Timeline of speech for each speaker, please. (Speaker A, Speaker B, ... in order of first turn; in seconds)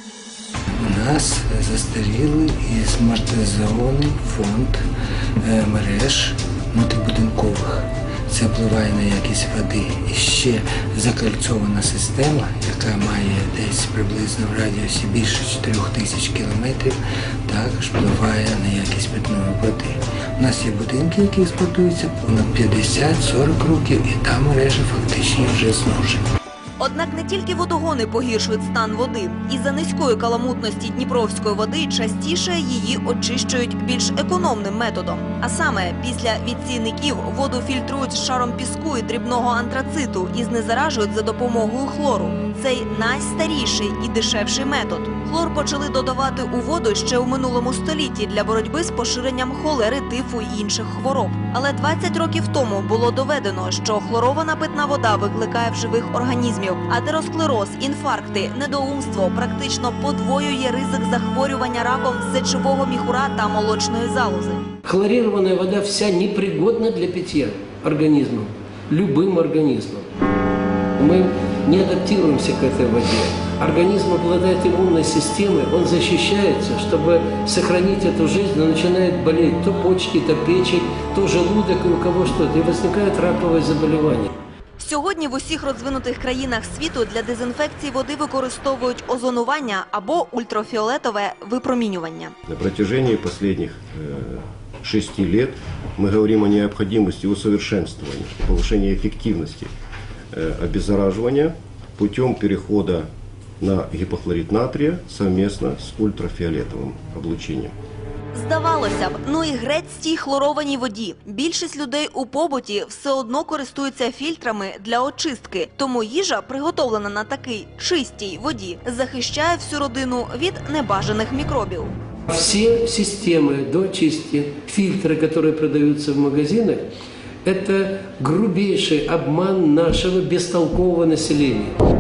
Speaker A: 0.8-4.8, 5.4-26.2
Speaker B: 26.8-64.7, 84.8-92.3, 108.3-121.9
Speaker C: 64.9-70.1, 71.0-84.3, 122.3-126.8, 127.5-131.8
Speaker D: 92.5-99.7, 100.3-103.1, 103.6-107.7